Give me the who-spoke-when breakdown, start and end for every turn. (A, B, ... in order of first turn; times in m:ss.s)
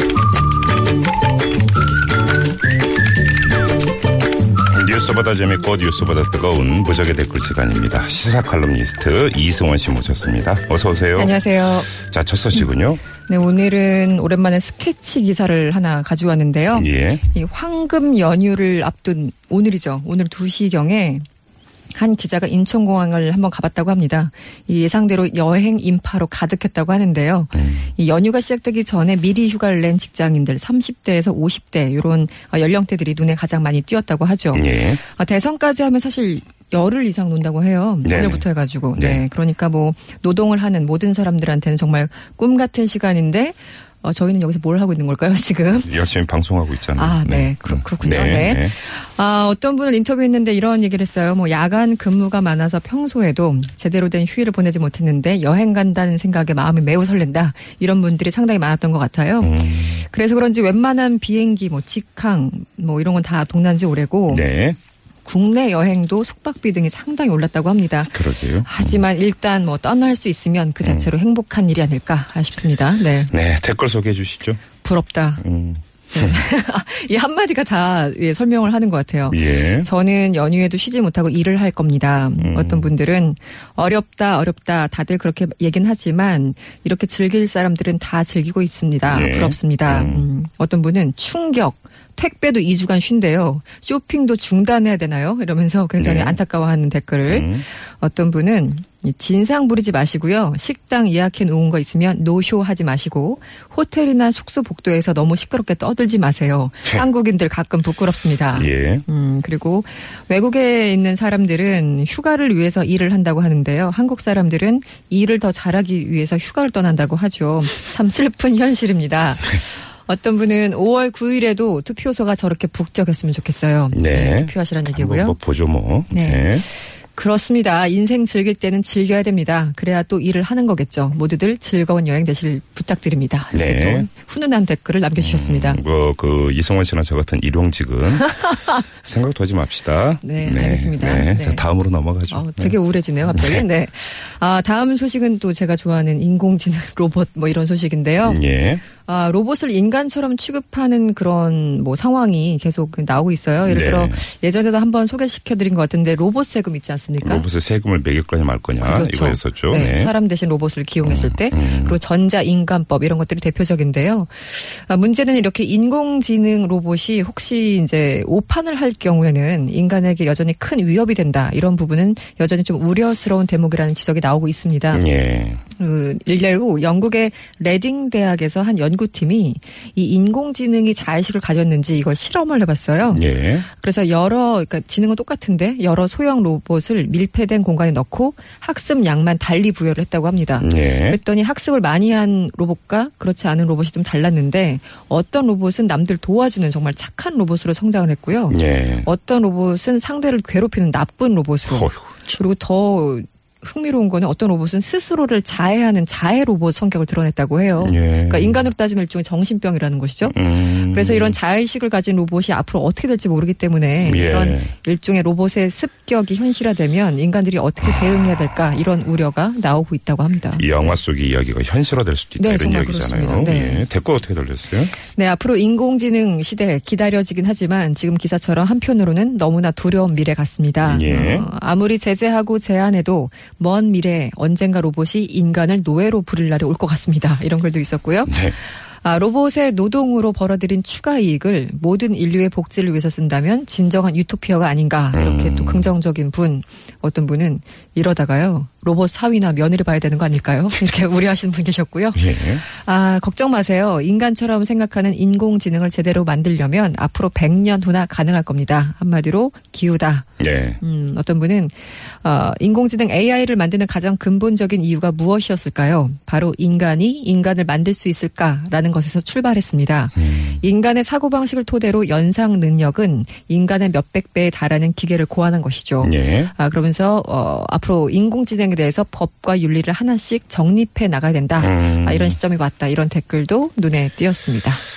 0:04.7-0:11.4 A
0:11.2-0:11.9 B
0:11.9-0:13.0 A
0:13.3-0:21.2 B
0:16.7-0:17.3 A
0:21.9-0:45.9 B
0:27.5-0:27.9 A
0:34.5-0:35.0 A
0:38.0-0:39.2 A
0:45.8-0:48.8 A
0:47.0-1:04.5 B
0:59.4-1:00.1 A
1:04.3-1:04.8 A
1:05.2-1:13.3 B
1:08.1-1:09.0 A
1:10.8-1:11.1 A
1:13.3-1:14.6 A
1:14.8-1:15.4 B
1:15.4-1:16.4 A
1:16.1-2:05.4 B
1:19.3-1:19.9 A
1:22.4-1:22.9 A
1:29.1-1:30.3 A
1:36.0-1:36.4 A
1:37.3-1:37.6 A
1:48.5-1:49.0 A
2:03.9-2:06.7 A
2:06.1-2:06.6 B
2:07.1-2:15.8 B
2:13.5-2:14.1 A
2:15.2-2:22.8 A
2:18.4-2:18.7 B
2:20.2-2:21.7 B
2:22.3-2:28.4 B
2:23.3-2:23.7 A
2:28.2-2:28.8 A
2:29.0-2:37.5 B
2:33.6-2:34.2 A
2:37.2-2:40.1 A
2:38.8-2:55.0 B
2:41.0-2:42.0 A
2:54.9-2:55.6 A
2:55.8-3:40.8 B
3:03.1-3:03.7 A
3:10.6-3:11.2 A
3:18.5-3:19.1 A
3:21.7-3:22.4 A
3:27.8-3:28.6 A
3:30.3-3:31.4 A
3:34.0-3:34.7 A
3:40.6-3:45.0 A
3:42.4-3:43.8 B
3:45.1-3:58.5 B
3:50.8-3:51.5 A
3:58.3-3:58.6 A
3:59.0-4:20.3 B
4:05.1-4:05.9 A
4:12.2-4:12.6 A
4:20.4-4:20.8 A
4:20.8-4:44.8 B
4:30.2-4:30.6 A
4:36.0-4:36.5 A
4:41.6-4:42.4 A